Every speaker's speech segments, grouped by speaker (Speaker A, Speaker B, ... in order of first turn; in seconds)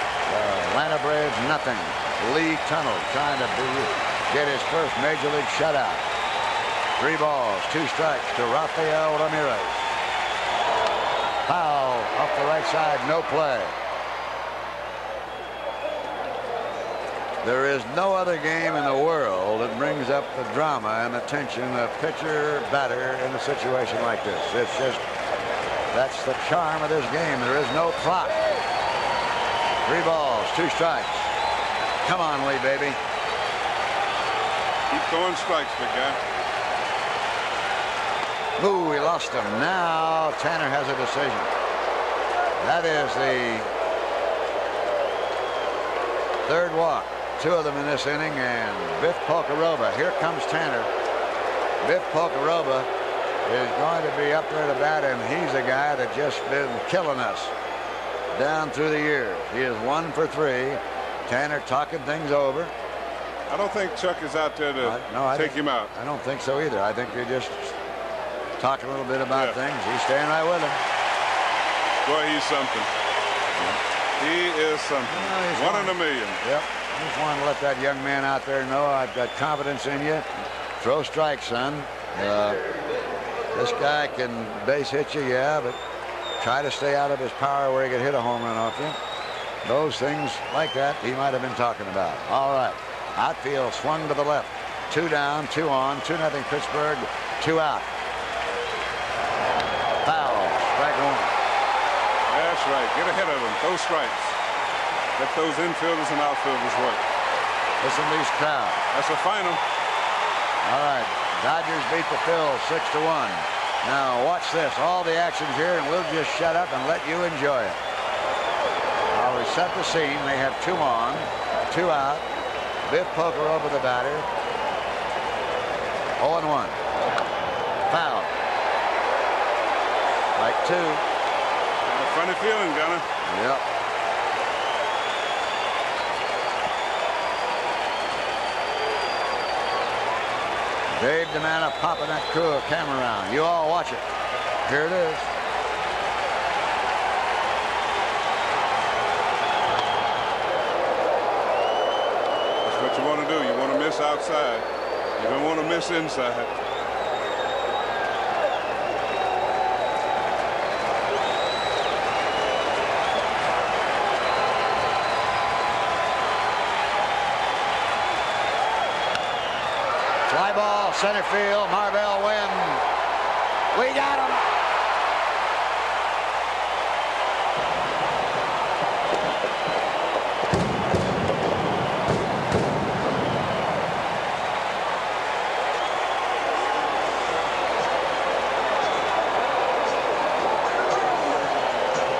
Speaker A: 0.2-6.0, 7.0-9.9, 11.4-13.7, 17.4-25.0, 25.9-28.4, 29.8-31.3, 32.0-33.0, 38.6-41.5, 42.6-43.7, 46.4-50.9, 51.8-52.9, 53.4-57.5, 58.3-62.7, 64.8-67.8, 68.6-70.8, 75.1-80.2, 80.8-82.6, 83.5-85.8, 86.4-89.0, 89.6-97.9, 100.0-101.3, 107.8-108.8, 110.6-117.8, 119.1-122.2, 122.8-124.3, 126.2-126.8, 127.9-128.3, 130.3-131.0, 133.2-133.6, 140.9-144.1, 144.6-145.3, 170.2-172.8, 173.7-174.4
Speaker B: 34.9-36.2, 63.5-65.9, 72.0-72.9, 74.2-76.4, 102.3-104.4, 105.2-107.0, 108.9-109.6, 131.8-133.0, 152.6-154.7, 155.2-156.5